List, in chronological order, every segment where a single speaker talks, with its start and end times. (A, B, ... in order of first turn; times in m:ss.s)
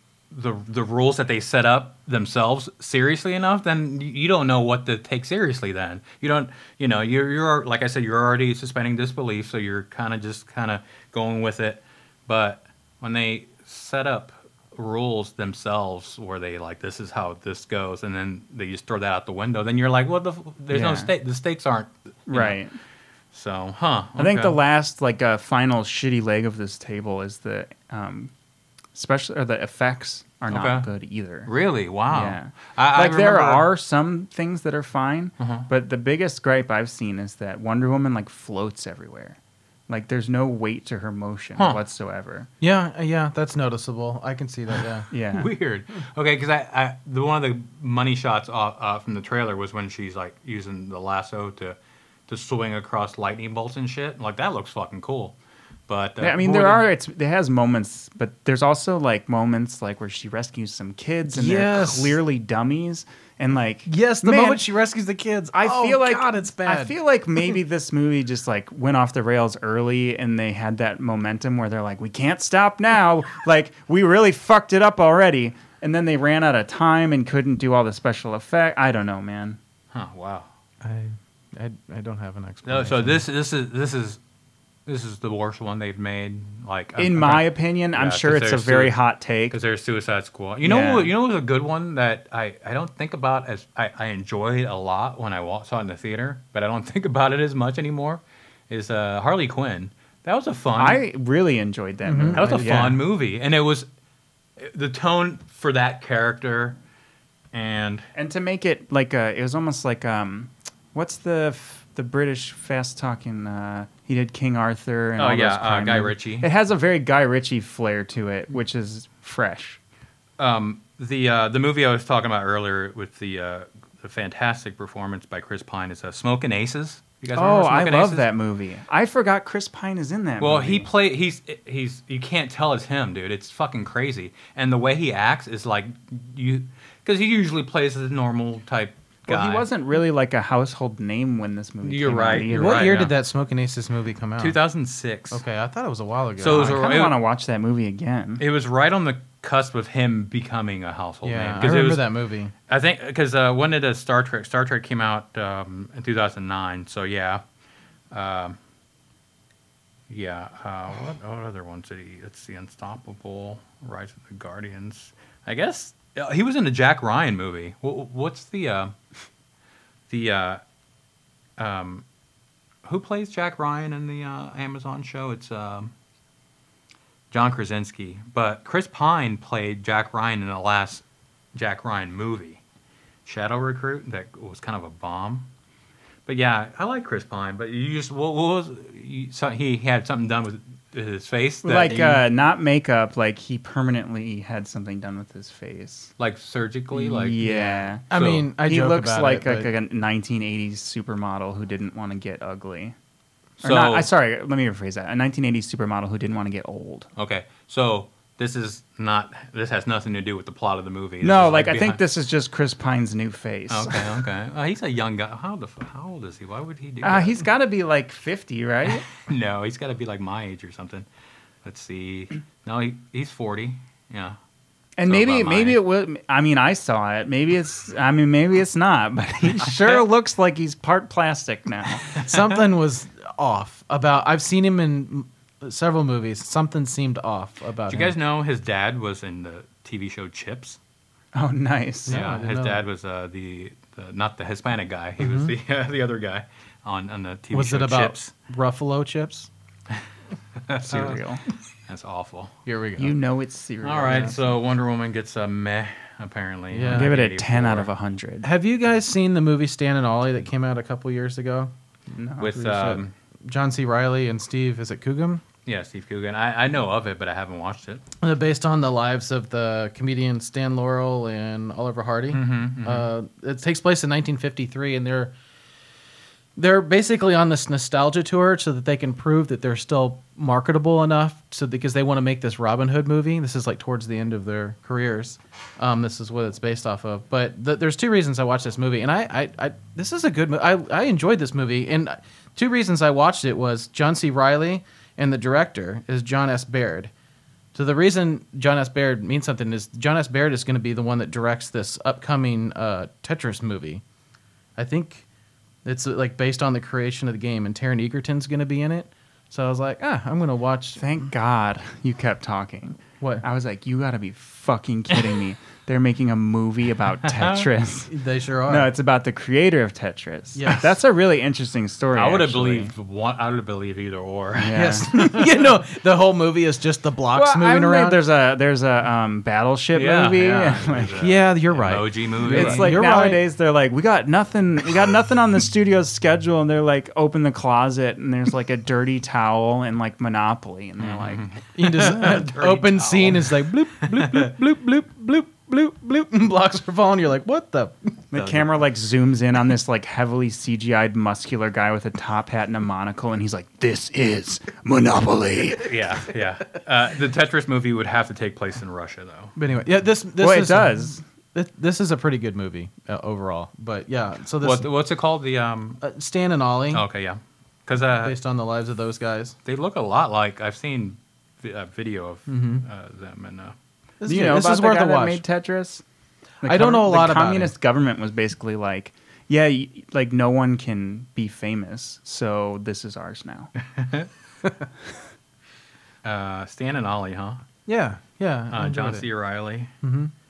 0:00.3-0:22.6 A
0:20.7-0:21.1 B
0:22.3-0:22.8 B
0:23.3-0:24.6 A
0:24.2-0:28.3 B
0:28.9-0:31.5 B
0:30.5-0:30.9 A
0:31.4-0:33.6 A
0:32.1-0:39.4 B
0:35.4-0:35.7 A
0:39.9-0:42.5 B
0:42.6-0:45.1 C
0:45.1-0:45.5 B
0:45.3-0:51.8 A
0:52.3-0:55.4 A
0:55.9-0:56.9 A
0:56.2-1:04.6 B
1:01.3-1:02.2 C
1:03.8-1:07.5 C
1:05.5-1:19.6 B
1:19.9-1:20.5 A
1:20.8-1:23.2 C
1:22.6-1:24.2 A
1:24.8-1:29.0 A
1:27.0-1:29.6 B
1:29.5-1:41.0 A
1:30.6-1:31.1 B
1:40.8-1:43.0 B
1:42.0-1:42.9 C
1:42.4-1:43.9 A
1:44.6-1:46.8 A
1:47.5-1:48.1 A
1:48.1-1:59.8 B
1:55.2-1:56.5 A
2:00.4-2:08.3 A
2:07.3-2:10.9 B
2:10.4-2:19.7 A
2:19.3-2:23.1 B
2:21.8-2:23.1 A
2:22.3-2:24.6 C
2:24.4-2:25.4 A
2:25.3-2:26.7 C
2:26.4-2:27.2 A
2:26.4-2:28.4 B
2:28.4-2:32.0 A
2:31.2-2:32.5 C
2:32.7-2:37.4 A
2:38.1-2:38.6 A
2:40.1-2:48.9 A
2:50.1-2:50.6 A
2:51.6-2:52.0 A
2:52.8-2:55.9 A
2:57.3-3:02.6 A
3:03.2-3:05.5 A
3:06.2-3:12.2 A
3:11.6-3:16.1 B
3:16.2-3:18.5 A
3:16.9-3:23.0 B
3:17.4-3:19.7 C
3:23.6-3:27.1 B
3:23.6-3:24.1 A
3:27.2-3:32.0 A
3:31.2-3:34.1 B
3:33.7-3:37.4 A
3:37.0-3:39.0 B
3:38.9-3:41.0 A
3:41.6-3:44.4 A
3:45.0-3:52.1 B
3:45.1-3:45.8 A
3:49.6-3:50.0 A
3:52.2-3:58.1 C
3:57.9-4:00.8 A
4:01.3-4:02.2 B
4:02.1-4:02.8 C
4:02.1-4:08.3 A
4:05.2-4:05.5 C
4:07.5-4:09.5 C
4:10.7-4:11.2 A
4:10.8-4:11.4 B
4:11.8-4:12.6 A
4:12.6-4:13.2 C
4:13.0-4:14.5 B
4:13.8-4:17.9 A
4:16.7-4:17.1 C
4:16.9-4:18.4 B
4:18.4-4:21.7 C
4:22.1-4:23.0 B
4:22.4-4:23.1 A
4:22.8-4:25.4 C
4:25.6-4:28.0 A
4:28.2-4:35.3 C
4:32.3-4:33.1 A
4:36.6-4:57.1 C
4:57.7-5:04.0 C
5:04.8-5:05.2 C
5:05.8-5:11.1 C
5:11.0-5:18.1 B
5:18.1-5:18.9 C
5:18.7-5:22.9 B
5:20.6-5:20.9 C
5:22.1-5:25.6 A
5:24.6-5:25.1 B
5:24.7-5:28.2 C
5:27.3-5:31.2 B
5:29.9-5:33.0 A
5:31.2-5:33.4 C
5:32.5-5:41.4 B
5:41.0-5:44.5 A
5:41.7-5:48.2 C
5:48.3-5:55.9 B
5:48.4-5:48.6 A
5:55.7-5:59.5 A
5:59.6-6:04.9 C
6:00.4-6:01.2 B
6:04.6-6:06.0 A
6:06.0-6:07.0 C
6:06.9-6:08.4 A
6:08.2-6:09.6 C
6:09.6-6:13.8 A
6:12.5-6:12.8 C
6:14.2-6:15.4 C
6:14.2-6:16.0 B
6:16.6-6:23.7 B
6:16.6-6:17.7 C
6:23.8-6:24.3 A
6:26.2-6:27.6 A
6:27.8-6:29.3 C
6:28.7-6:29.9 A
6:30.0-6:30.3 C